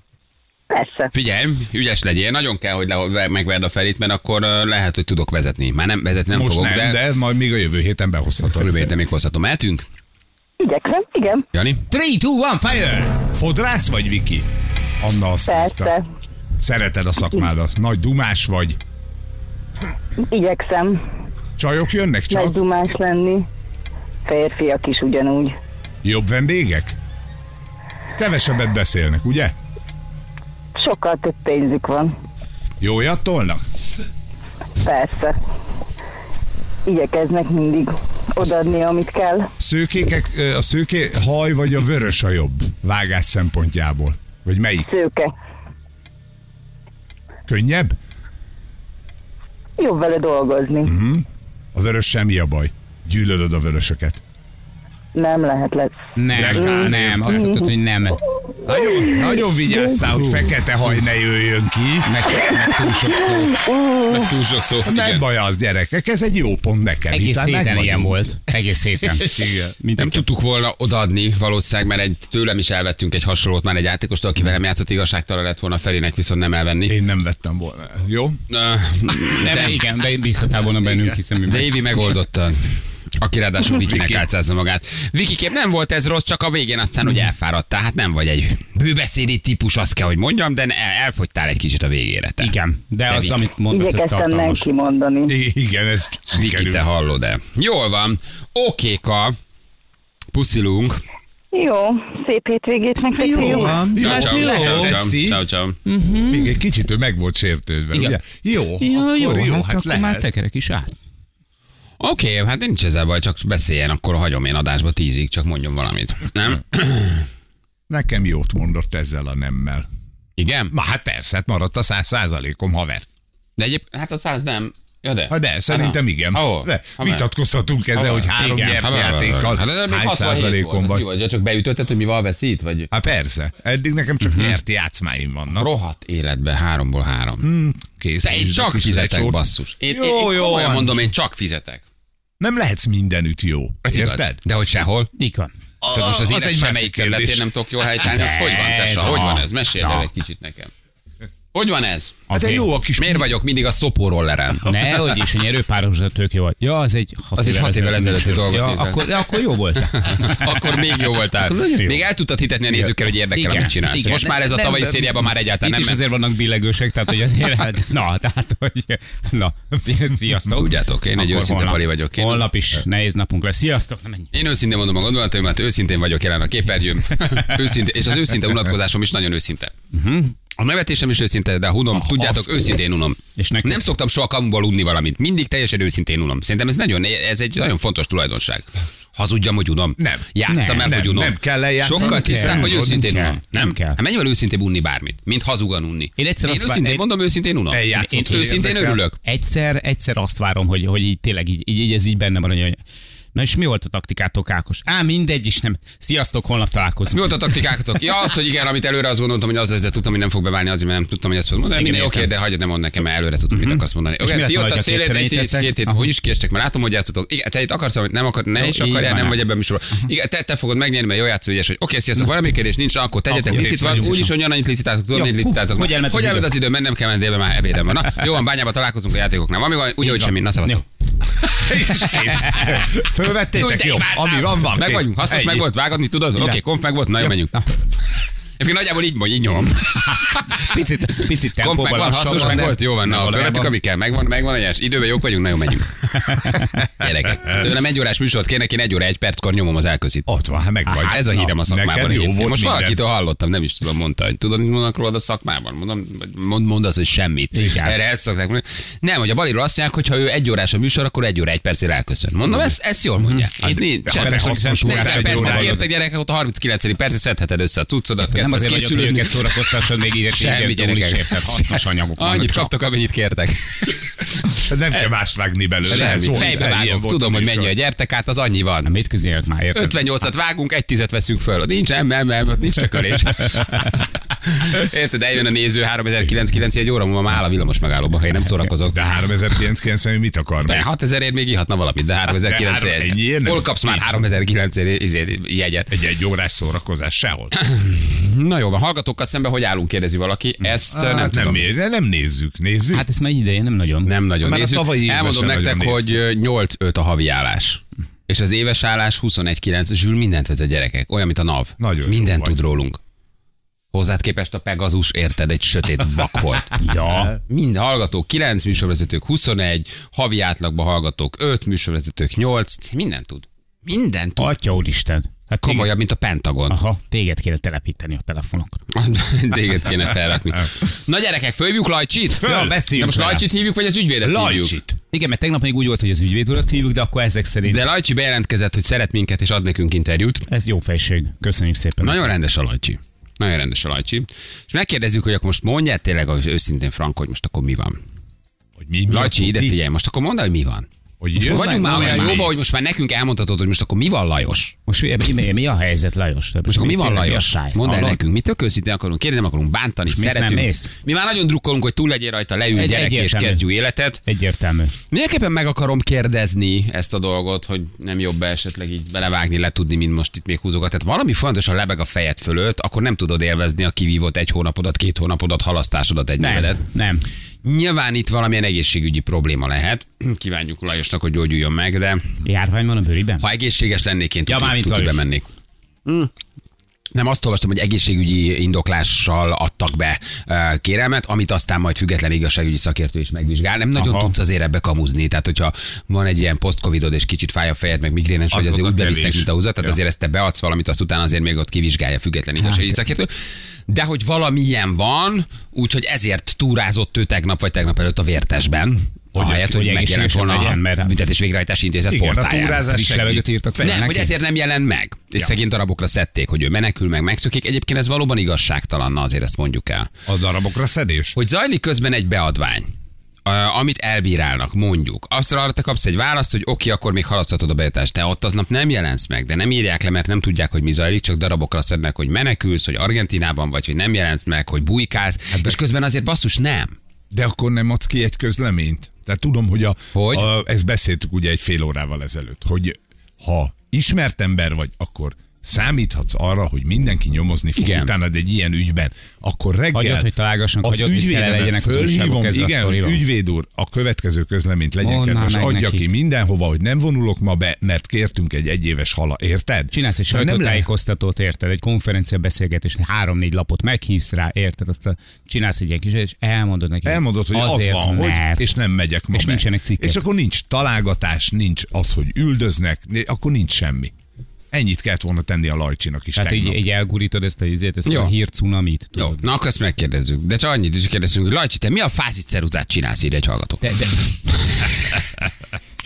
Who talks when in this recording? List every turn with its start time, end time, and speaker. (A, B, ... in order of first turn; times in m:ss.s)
0:00.7-0:01.1 A
0:01.1-0:07.0 B
0:06.3-0:08.9 C
0:08.6-0:09.8 B
0:10.6-0:11.4 A
0:11.5-0:11.8 B
0:11.9-0:13.2 D
0:13.3-0:14.4 C
0:15.0-0:15.9 C
0:15.4-0:16.1 A
0:16.6-0:18.8 C
0:20.2-0:21.0 A
0:21.6-0:22.6 C
0:22.3-0:23.4 A
0:24.2-0:25.6 A
0:26.0-0:27.0 C
0:28.2-0:29.5 C
0:30.8-0:32.2 A
0:32.8-0:33.6 C
0:34.8-0:35.4 A
0:36.8-0:39.5 A
0:39.6-0:44.9 C
0:44.8-0:45.3 A
0:47.5-0:48.0 C
0:49.8-0:51.0 A
0:50.8-0:54.2 C
0:55.1-0:57.7 A
0:56.2-0:58.2 D
0:56.3-0:57.6 C
0:58.3-1:00.0 A
0:58.6-1:02.2 C
1:02.0-1:03.6 D
1:02.6-1:04.3 A
1:04.1-1:05.2 B
1:04.9-1:08.2 C
1:07.1-1:10.2 D
1:09.0-1:09.7 C
1:10.0-1:17.0 B
1:16.9-1:18.4 C
1:18.5-1:19.8 B
1:19.3-1:21.8 D
1:21.4-1:32.5 B
1:23.8-1:24.3 C
1:32.4-1:34.7 D
1:33.1-1:33.5 B
1:33.7-1:35.3 A
1:35.3-1:36.8 C
1:36.3-1:39.4 B
1:40.3-1:41.0 B
1:41.5-1:43.8 A
1:43.2-1:45.0 D
1:43.2-1:45.4 C
1:44.0-1:45.8 B
1:45.8-1:46.6 D
1:46.3-1:50.2 C
1:47.9-1:48.2 D
1:48.8-1:50.9 D
1:52.0-1:57.3 B
1:57.9-1:59.9 C
2:00.4-2:00.7 B
2:00.7-2:03.0 C
2:03.6-2:07.3 B
2:05.3-2:11.0 C
2:07.9-2:12.9 B
2:08.4-2:08.8 D
2:12.9-2:15.7 C
2:14.2-2:14.5 D
2:15.5-2:17.5 B
2:17.4-2:19.4 C
2:18.2-2:21.8 B
2:19.9-2:21.1 C
2:22.4-2:24.4 C
2:23.8-2:25.1 B
2:25.2-2:25.5 D
2:25.8-2:27.4 C
2:25.9-2:30.7 B
2:28.0-2:30.0 D
2:31.5-2:32.2 B
2:32.3-2:32.6 D
2:32.3-2:33.3 C
2:33.0-2:35.2 B
2:34.6-2:40.8 D
2:37.4-2:46.0 B
2:41.3-2:42.0 D
2:43.3-2:54.3 D
2:50.4-2:52.5 B
2:54.3-2:59.7 B
2:59.9-3:00.3 D
3:00.6-3:19.2 B
3:01.9-3:02.7 C
3:03.4-3:03.8 D
3:10.0-3:13.0 C
3:10.5-3:11.0 D
3:11.9-3:14.0 D
3:16.2-3:17.0 D
3:17.7-3:19.0 C
3:17.9-3:18.4 D
3:19.2-3:22.8 D
3:23.3-3:27.5 D
3:27.1-3:50.8 B
3:31.7-3:32.3 D
3:33.5-3:36.0 D
3:38.6-3:39.4 D
3:43.3-3:44.2 C
3:43.5-3:44.3 D
3:45.1-3:46.5 D
3:50.0-3:50.8 D
3:51.4-3:55.7 C
3:52.0-3:52.8 D
3:52.1-3:52.6 B
3:53.5-4:10.3 B
3:57.3-3:57.7 D
4:00.2-4:03.7 D
4:06.1-4:06.8 D
4:10.3-4:13.0 C
4:10.8-4:11.5 D
4:10.9-4:35.0 B
4:17.5-4:18.0 D
4:23.6-4:25.8 C
4:24.1-4:25.8 D
4:28.2-4:32.7 D
4:34.6-4:37.7 C
4:35.9-4:38.9 B
4:38.8-4:40.0 D
4:39.7-4:49.3 B
4:48.9-4:50.9 C
4:50.6-4:55.9 B
4:52.4-4:54.2 C
4:55.9-4:57.5 C
4:57.6-5:01.6 B
5:00.9-5:03.0 C
5:02.9-5:04.1 D
5:04.0-5:13.0 B
5:04.4-5:06.1 C
5:11.8-5:12.6 C
5:13.9-5:16.8 B
5:16.8-5:17.4 D
5:17.5-5:24.5 B
5:24.4-5:25.9 D
5:25.6-5:26.8 B
5:26.7-5:28.8 D
5:28.9-5:34.8 B
5:32.4-5:32.8 C
5:32.4-5:33.4 D
5:34.2-5:35.0 C
5:35.1-5:37.8 D
5:37.6-5:40.5 B
5:40.5-5:42.2 D
5:42.0-5:48.0 B
5:48.8-5:49.8 C
5:49.1-5:50.9 B
5:51.2-5:52.4 C
5:51.4-5:52.6 D
5:51.4-5:54.8 B
5:54.9-5:58.2 D
5:56.7-6:04.2 B
6:00.1-6:00.9 D
6:02.7-6:03.6 D
6:04.2-6:05.0 D
6:05.1-6:16.8 B
6:16.4-6:17.2 D
6:17.6-6:22.4 B
6:22.4-6:23.4 D
6:23.4-6:25.4 B
6:24.5-6:25.2 D
6:27.1-6:52.8 B
6:34.0-6:34.3 D
6:38.5-6:40.0 C
6:42.6-6:43.0 D
6:49.4-6:51.2 D
6:52.1-6:53.4 C
6:52.8-6:54.3 D
6:53.8-7:00.1 B
7:00.2-7:01.4 C
7:01.4-7:02.9 B
7:03.4-7:17.0 B
7:17.3-7:30.3 C
7:20.1-7:20.5 B
7:27.8-7:28.1 B
7:29.9-7:33.2 D
7:30.8-7:40.9 C
7:35.0-7:36.1 D
7:39.9-7:48.8 D
7:47.0-7:54.1 C
7:49.3-7:50.2 D
7:54.7-7:56.8 C
7:56.4-7:59.4 D
7:58.0-7:58.3 B
7:59.2-8:05.4 B
8:03.8-8:04.4 D